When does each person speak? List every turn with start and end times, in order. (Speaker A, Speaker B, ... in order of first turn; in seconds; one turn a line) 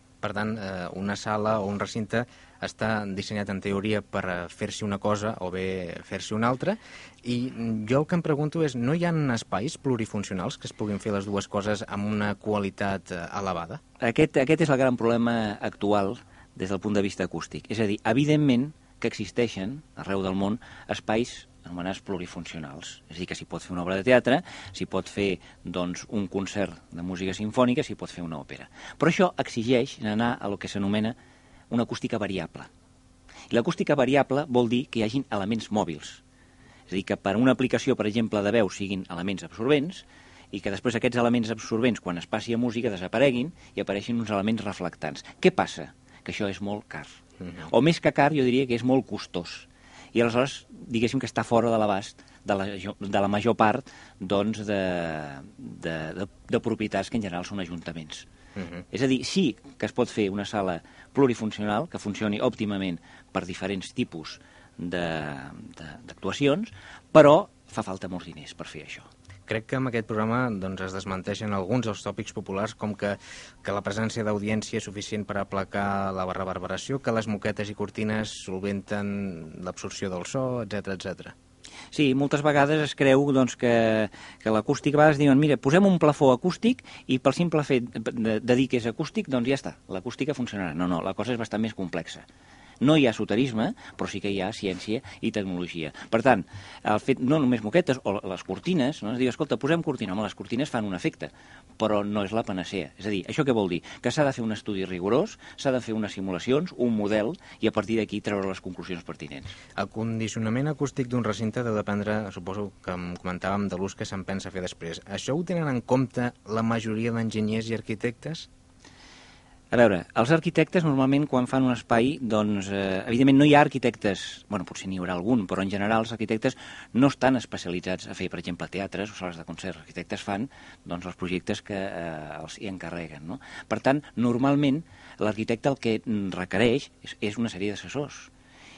Speaker A: 0.2-13.8
Speaker B: 14.0-31.1
Speaker B: 31.7-32.7
Speaker B: 33.5-36.2
Speaker B: 36.9-58.2
Speaker A: 47.4-47.6
Speaker A: 58.5-58.8
Speaker B: 58.9-69.1
Speaker A: 69.5-81.3
Speaker B: 81.9-92.2
Speaker B: 92.8-109.5
Speaker A: 109.8-118.5
Speaker B: 119.7-138.3